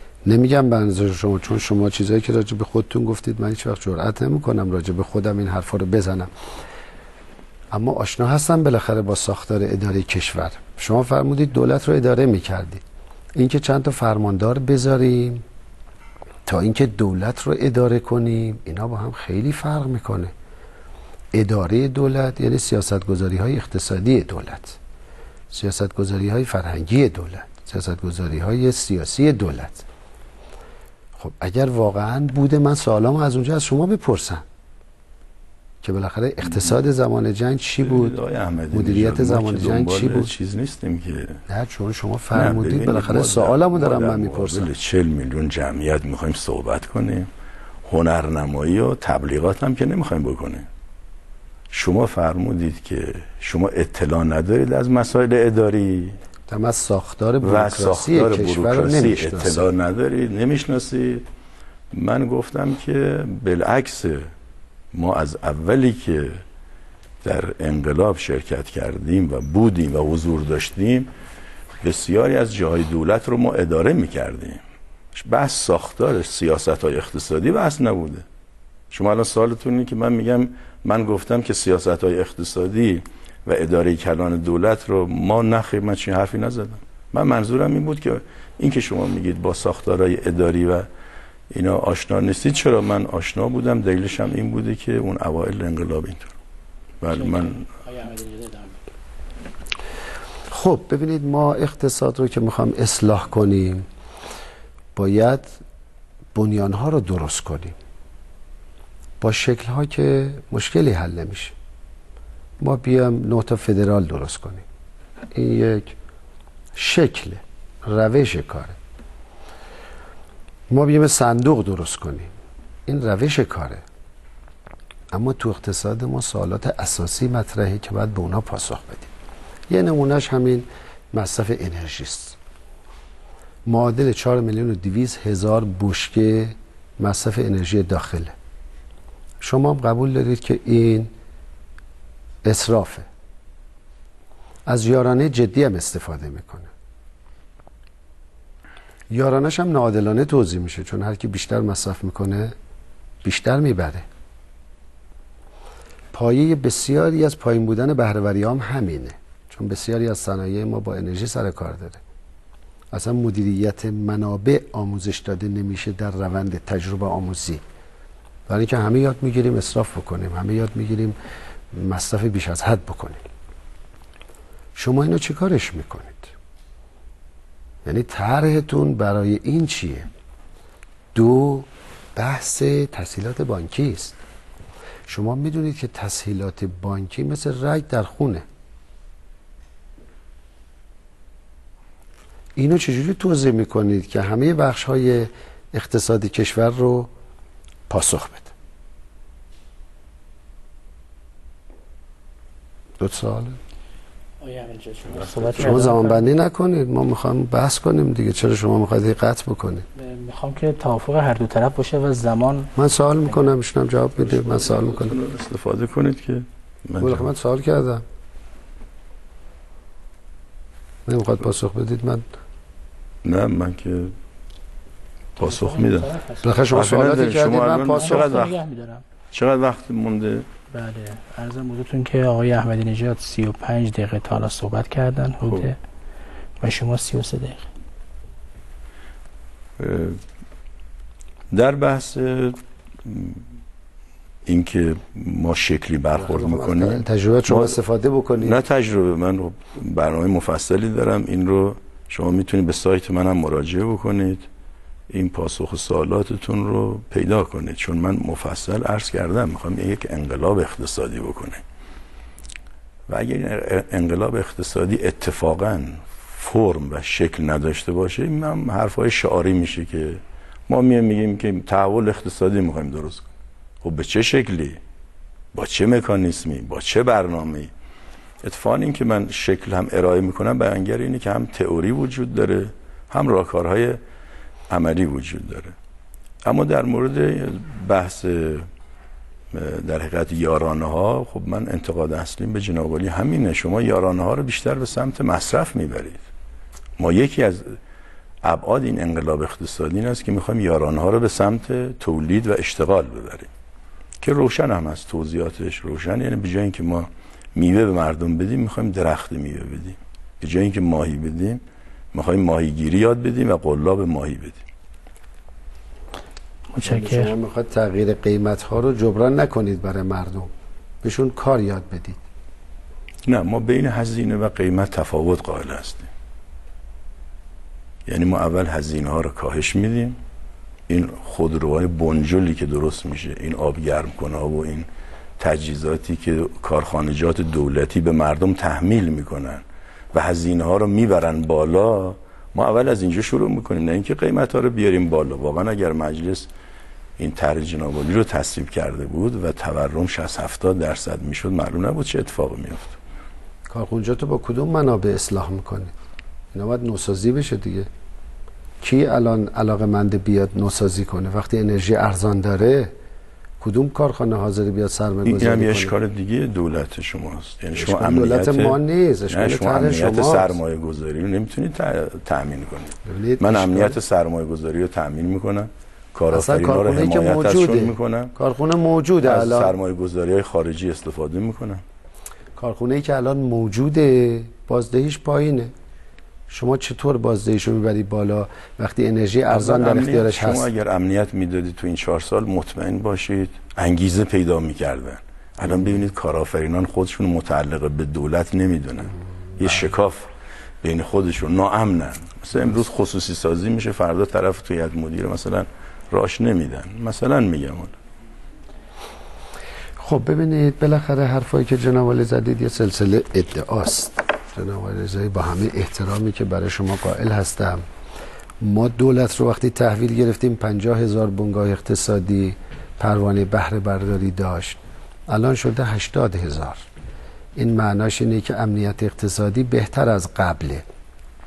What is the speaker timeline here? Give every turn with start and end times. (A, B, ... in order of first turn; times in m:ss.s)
0:00.2-0:06.3 A
0:07.7-0:12.8 A
0:13.3-0:15.4 A
0:16.4-0:20.3 A
0:21.3-0:24.8 A
0:25.5-0:29.8 A
0:31.2-0:34.4 A
0:35.8-0:38.1 A
0:37.8-0:41.4 B
0:38.7-0:40.3 A
0:41.5-0:44.7 A
0:42.3-0:47.3 B
0:47.8-0:50.7 B
0:51.7-0:56.2 B
0:56.5-0:59.7 A
0:57.4-1:01.2 B
1:01.9-1:04.3 B
1:04.9-1:06.4 B
1:07.2-1:11.1 B
1:11.8-1:14.6 B
1:15.1-1:18.2 B
1:18.9-1:30.8 B
1:31.5-1:36.3 B
1:37.0-1:37.7 B
1:37.1-1:38.8 C
1:40.5-1:43.8 A
1:44.9-1:45.5 A
1:46.3-1:47.7 A
1:49.2-1:51.5 A
1:52.6-1:54.6 A
1:55.3-1:56.0 A
1:56.7-1:58.8 A
2:00.7-2:02.3 A
2:02.9-2:03.8 A
2:05.1-2:09.1 A
2:09.7-2:12.4 A
2:13.6-2:18.3 A
2:19.4-2:21.1 A
2:22.4-2:23.1 A
2:24.7-2:26.7 A
2:29.1-2:32.5 A
2:33.2-2:34.0 A
2:36.1-2:42.0 A
2:42.9-2:47.6 A
2:48.5-2:51.2 A
2:51.7-2:53.2 A
2:54.8-2:56.3 A
2:57.8-3:00.1 A
3:01.1-3:04.2 A
3:05.1-3:08.4 A
3:12.6-3:17.1 A
3:17.9-3:18.5 A
3:23.0-3:23.6 A
3:24.4-3:26.3 C
3:25.1-3:25.9 B
3:25.6-3:29.8 A
3:30.0-3:32.7 C
3:32.8-3:35.2 A
3:34.2-3:37.3 B
3:37.0-3:38.0 A
3:41.0-3:42.2 A
3:43.2-3:44.1 B
3:45.4-3:46.7 C
3:45.4-3:46.1 B
3:46.4-3:48.5 A
3:46.7-3:48.6 B
3:47.8-3:49.0 C
3:49.3-3:50.5 B
3:50.7-3:55.8 C
3:55.4-3:55.7 B
3:56.6-3:57.7 C
3:59.8-4:00.2 B
4:01.5-4:03.4 B
4:04.4-4:07.8 B
4:06.1-4:08.6 A
4:08.4-4:14.5 B
4:15.1-4:21.6 B
4:23.1-4:33.3 B
4:33.8-4:34.8 B
4:35.5-4:37.7 B
4:38.4-4:44.0 B
4:44.7-4:45.8 B
4:46.4-4:48.7 B
4:49.5-4:56.2 B
4:57.0-4:57.8 B
4:58.4-5:03.5 B
5:04.2-5:14.6 B
5:16.7-5:17.3 C
5:16.8-5:20.5 A
5:21.0-5:22.2 A
5:23.3-5:26.1 B
5:28.1-5:30.2 B
5:30.9-5:34.9 B
5:35.4-5:46.5 B
5:47.2-5:53.0 B
5:53.7-5:55.9 A
5:56.5-5:57.9 A
5:58.8-6:02.9 A
6:03.6-6:05.9 A
6:05.2-6:08.8 B
6:07.7-6:10.6 A
6:09.3-6:18.3 B
6:13.0-6:14.0 A
6:16.3-6:19.7 A
6:19.2-6:21.8 B
6:22.6-6:25.7 A
6:26.5-6:30.7 A
6:29.5-6:40.3 B
6:40.8-6:47.9 B
6:50.0-6:57.8 A
6:58.6-7:04.8 A
7:05.3-7:06.8 A
7:07.6-7:10.8 A